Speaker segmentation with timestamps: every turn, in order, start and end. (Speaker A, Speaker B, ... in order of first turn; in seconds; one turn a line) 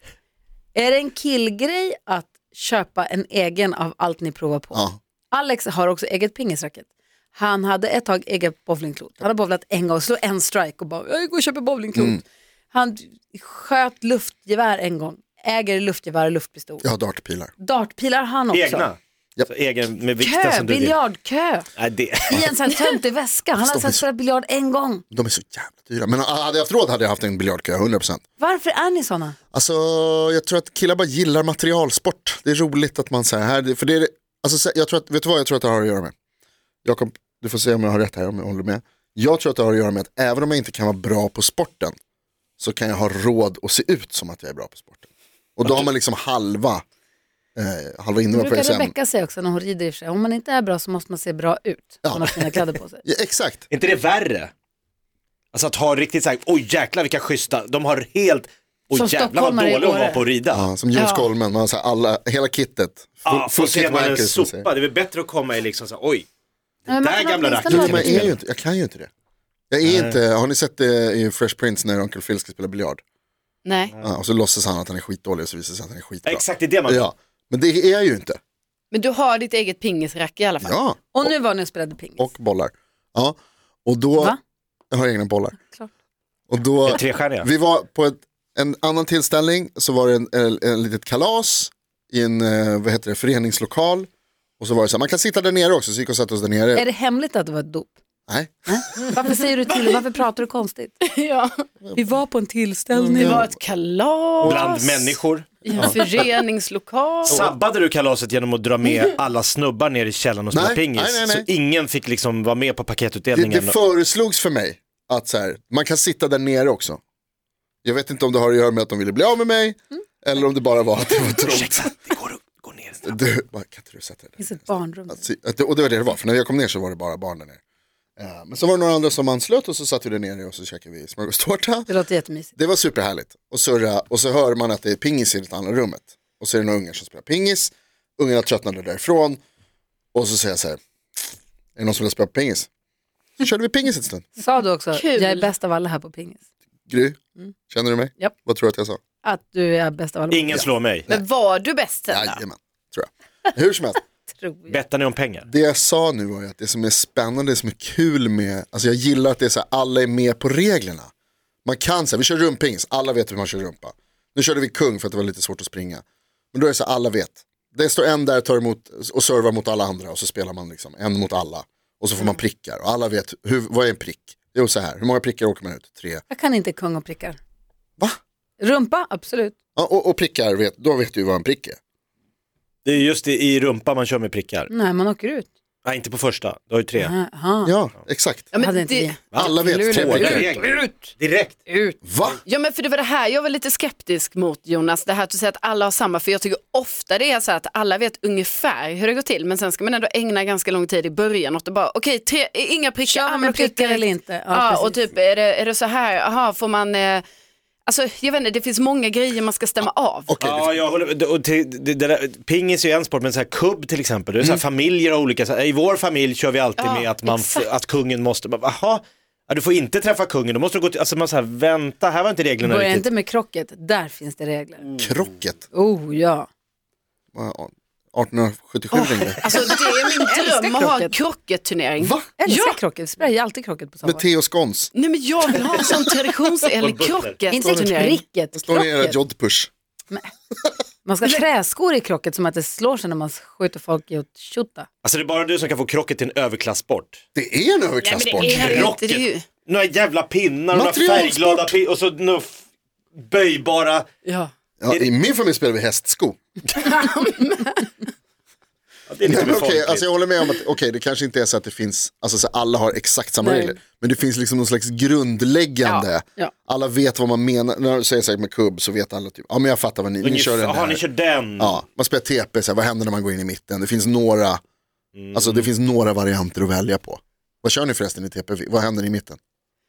Speaker A: 0.7-16.9
Speaker B: 11.9-12.2
Speaker B: 16.8-17.5
Speaker A: 17.6-18.9
Speaker C: 18.5-20.9
Speaker A: 20.2-21.7
Speaker C: 21.8-22.8
Speaker A: 22.3-25.0
Speaker B: 23.6-24.0
Speaker B: 25.1-28.2
Speaker A: 28.4-29.4
Speaker B: 29.5-36.1
Speaker B: 36.8-41.9
Speaker B: 42.6-46.8
Speaker B: 47.5-48.9
Speaker A: 48.3-53.0
Speaker B: 52.0-53.6
Speaker C: 53.7-54.5
Speaker C: 55.5-60.6
Speaker A: 58.9-60.2
Speaker B: 60.5-64.7
Speaker D: 60.9-61.3
Speaker C: 63.2-66.3
Speaker A: 66.9-68.3
Speaker C: 66.9-68.4
Speaker B: 67.7-69.1
Speaker B: 69.7-73.0
Speaker C: 69.8-70.2
Speaker D: 73.6-73.9
Speaker B: 74.0-78.4
Speaker C: 76.2-77.1
Speaker D: 78.9-80.8
Speaker B: 80.6-81.3
Speaker A: 81.1-82.3
Speaker B: 82.2-84.3
Speaker B: 84.9-85.5
Speaker B: 86.5-94.1
Speaker C: 86.8-87.5
Speaker B: 94.6-96.9
Speaker A: 96.7-97.9
Speaker B: 98.3-98.8
Speaker A: 98.7-101.0
Speaker D: 101.0-101.6
Speaker B: 101.8-102.2
Speaker A: 101.9-103.5
Speaker B: 102.9-103.5
Speaker D: 103.2-107.5
Speaker B: 104.4-104.7
Speaker C: 104.4-105.6
Speaker B: 105.7-106.0
Speaker C: 107.2-113.8
Speaker D: 108.8-109.1
Speaker B: 110.5-111.5
Speaker B: 113.3-117.0
Speaker B: 117.8-121.9
Speaker C: 121.2-123.2
Speaker B: 123.0-127.6
Speaker A: 124.4-125.2
Speaker B: 128.2-131.9
Speaker A: 131.9-132.5
Speaker B: 132.6-139.4
Speaker B: 140.1-140.8
Speaker B: 141.8-142.7
Speaker B: 143.4-144.2
Speaker A: 144.4-146.4
Speaker D: 144.9-145.5
Speaker B: 146.9-147.2
Speaker B: 147.7-149.0
Speaker A: 149.2-150.7
Speaker C: 150.3-151.1
Speaker B: 150.5-151.2
Speaker D: 151.1-152.4
Speaker B: 152.1-154.0
Speaker A: 154.3-154.8
Speaker C: 154.7-155.5
Speaker B: 155.4-161.1
Speaker B: 161.6-176.2
Speaker A: 176.3-177.4
Speaker A: 178.6-179.5
Speaker B: 179.8-181.8
Speaker C: 182.8-184.7
Speaker A: 184.7-185.5
Speaker C: 185.8-187.1
Speaker A: 187.0-187.7
Speaker B: 187.6-188.5
Speaker D: 188.5-189.7
Speaker A: 188.6-191.1
Speaker C: 189.3-191.6
Speaker B: 189.4-190.5
Speaker A: 191.7-192.0
Speaker B: 192.0-192.4
Speaker D: 192.4-207.2
Speaker A: 203.1-205.1
Speaker D: 207.8-210.3
Speaker B: 210.3-210.8
Speaker C: 210.4-223.1
Speaker D: 216.8-217.7
Speaker A: 222.6-224.8
Speaker B: 225.0-225.6
Speaker A: 225.7-226.5
Speaker B: 227.3-229.5
Speaker D: 228.9-232.8
Speaker A: 229.9-231.1
Speaker B: 232.0-232.3
Speaker A: 232.4-234.2
Speaker B: 234.0-234.9
Speaker D: 234.9-238.2
Speaker C: 236.8-237.4
Speaker A: 237.5-239.2
Speaker B: 237.6-239.7
Speaker A: 241.0-244.9
Speaker C: 245.0-247.2
Speaker B: 247.3-248.9
Speaker D: 248.0-249.4
Speaker C: 248.4-252.6
Speaker B: 250.7-251.7
Speaker C: 253.1-254.1
Speaker B: 254.8-256.4
Speaker D: 256.7-257.8
Speaker C: 259.1-260.1
Speaker B: 259.2-271.0
Speaker A: 263.4-263.8
Speaker C: 270.2-271.8
Speaker B: 271.6-274.6
Speaker C: 275.1-275.7
Speaker B: 275.3-279.4